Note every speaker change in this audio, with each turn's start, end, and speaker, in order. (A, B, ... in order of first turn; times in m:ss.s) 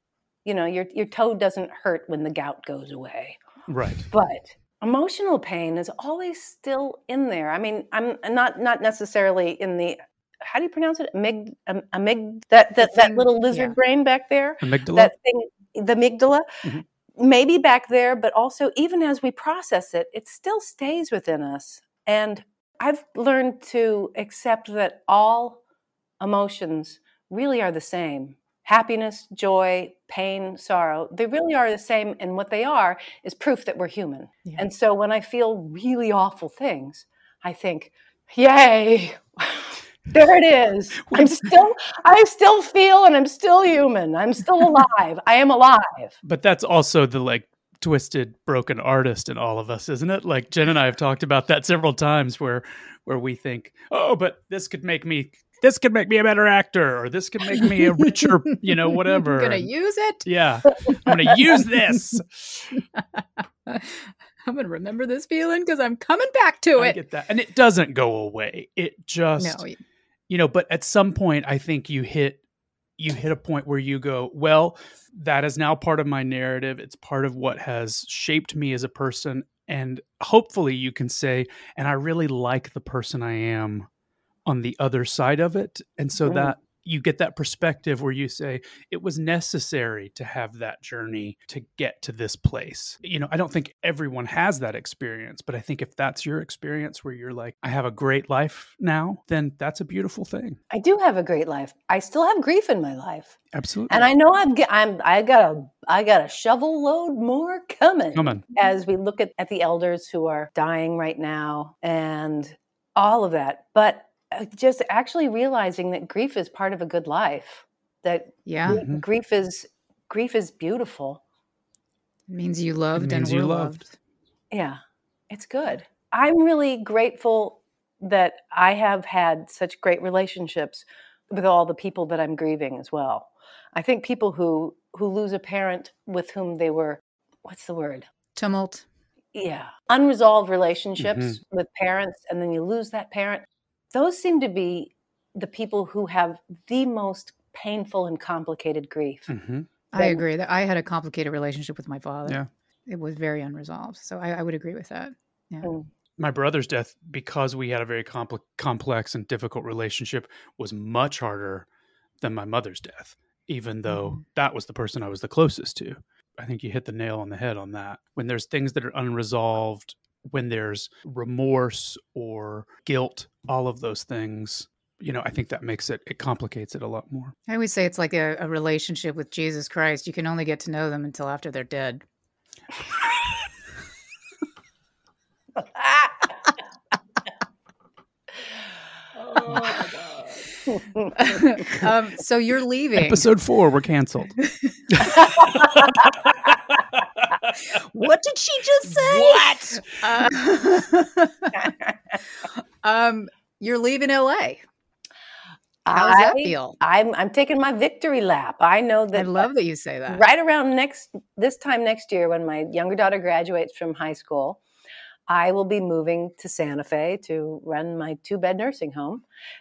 0:00.4-0:03.4 A
0:03.7-0:04.1 B
0:04.1-0:16.6 A
0:12.8-0:13.7 C
0:14.6-0:15.1 B
0:17.2-0:25.6 A
0:26.2-0:46.2 A
0:46.2-0:59.7 B
0:57.6-1:00.2 C
1:00.2-1:02.8 B
1:01.1-1:01.3 C
1:03.0-1:07.0 C
1:06.8-1:09.6 B
1:09.4-1:09.8 C
1:10.3-1:12.4 B
1:13.0-1:23.9 B
1:24.5-1:40.6 B
1:26.3-1:26.5 A
1:40.7-1:43.4 A
1:43.5-1:44.1 B
1:43.9-2:01.2 A
1:48.2-1:48.4 B
1:58.5-1:58.8 C
1:58.7-1:59.0 B
2:02.3-2:03.9 C
2:03.0-2:03.8 B
2:04.5-2:04.8 A
2:05.3-2:18.1 A
2:18.4-2:18.9 C
2:19.4-2:29.3 A
2:21.0-2:21.4 B
2:29.3-2:29.7 B
2:29.9-2:35.7 C
2:30.0-2:30.2 A
2:36.2-2:41.7 B
2:42.2-2:57.4 B
2:43.9-2:44.2 C
2:57.5-3:02.0 C
3:05.8-3:06.2 A
3:09.2-3:10.2 B
3:09.5-3:09.9 A
3:10.7-3:11.1 A
3:11.1-3:13.2 C
3:13.0-3:14.4 B
3:14.4-3:14.8 C
3:14.9-3:17.4 B
3:17.7-3:21.7 C
3:19.0-3:19.6 B
3:21.6-3:22.2 A
3:22.6-3:24.6 C
3:25.8-3:29.4 A
3:25.9-3:26.8 C
3:29.2-3:30.2 C
3:30.1-3:34.6 A
3:35.3-3:39.2 A